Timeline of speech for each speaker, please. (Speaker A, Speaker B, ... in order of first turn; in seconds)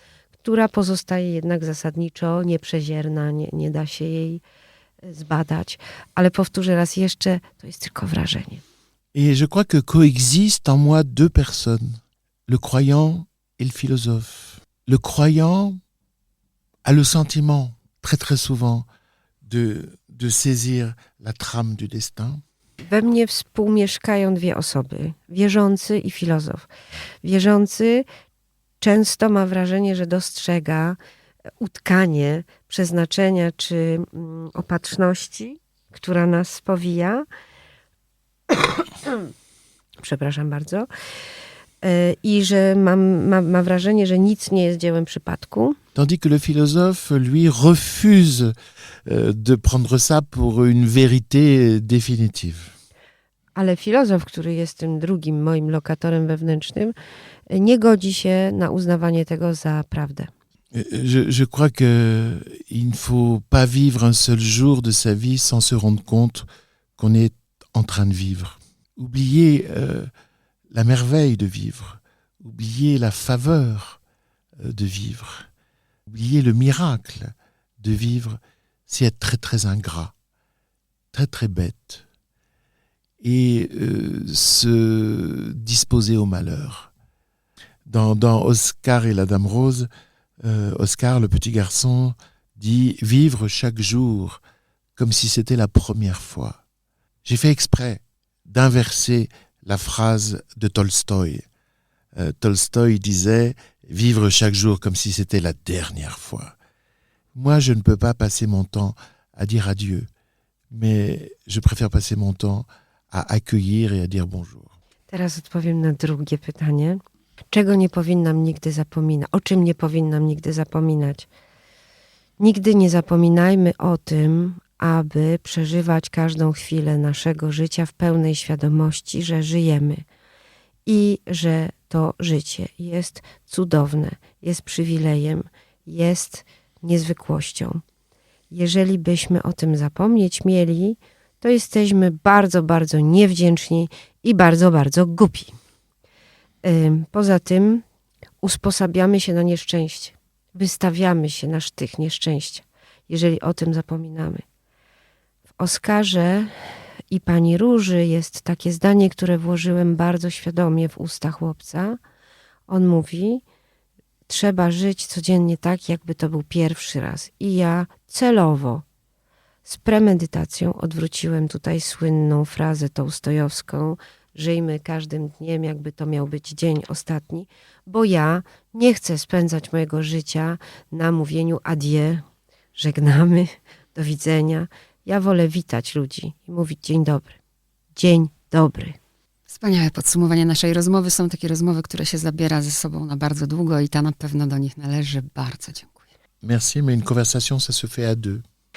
Speaker A: 0.4-4.4, 5.0-8.6, 22.9-26.7, 27.2-28.1, 28.8-31.0, 31.6-37.3, 40.0-40.9, 41.8-45.8, 53.6-57.0, 57.5-60.3, 115.1-117.0, 117.5-121.3, 122.4-130.1, 130.9-137.8, 138.5-145.6, 146.6-147.8, 148.4-154.4, 155.6-156.5, 157.1-162.0, 162.7-163.4, 164.3-168.8, 169.7-182.2, 182.8-187.4, 188.0-189.0
Speaker B: 9.1-15.8, 16.9-18.9, 19.4-22.4, 46.0-48.5, 49.1-52.7, 60.7-66.5, 67.0-70.1, 70.7-74.0, 74.6-75.5, 76.1-80.1, 81.1-82.0, 83.2-86.9, 87.9-89.9, 90.4-94.4, 95.0-96.6, 97.2-101.5, 102.2-106.5, 107.3-110.1, 110.7-114.7, 196.4-198.4
Speaker C: 189.5-196.1